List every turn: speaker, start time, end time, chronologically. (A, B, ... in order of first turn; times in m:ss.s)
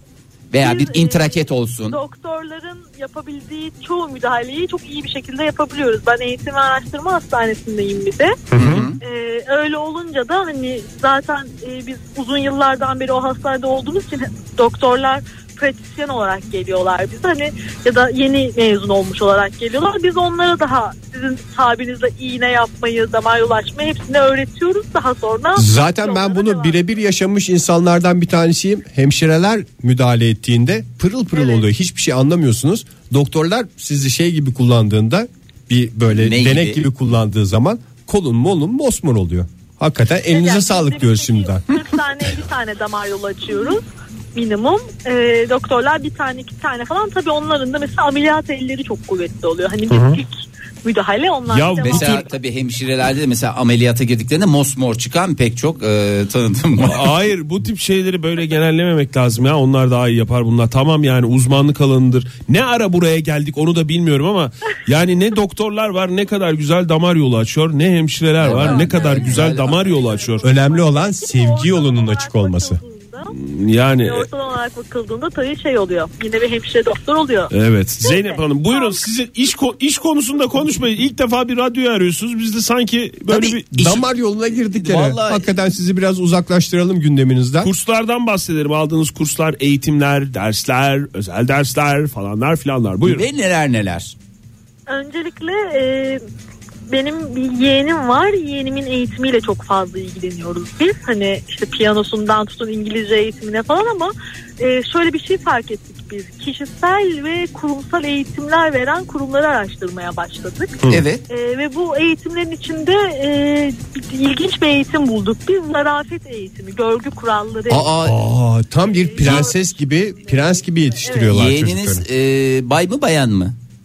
0:00.5-0:02.0 A
0:00.6-0:08.4 B
0:08.5-0:09.0 A
0:09.0-0:26.8 B
0:25.6-0:41.6 C
0:36.2-0:36.9 A
0:40.3-0:43.8 B
0:44.3-0:52.3 B
0:49.9-0:50.2 D
0:51.5-0:52.2 D
0:51.8-0:57.0 A
0:56.8-1:10.4 D
1:08.4-1:09.8 A
1:08.4-1:13.4 B
1:10.4-1:12.8 C
1:13.4-1:14.3 D
1:14.0-1:19.0 B
1:17.5-1:24.0 D
1:23.3-1:27.7 C
1:24.7-1:25.5 A
1:27.6-1:33.2 D
1:33.0-1:34.1 A
1:34.9-1:36.2 B
1:36.9-1:50.7 B
1:50.9-1:51.2 A
1:51.3-1:57.9 B
1:57.7-1:58.2 A
1:58.0-2:02.0 C
1:58.8-2:01.4 B
2:01.3-2:03.6 A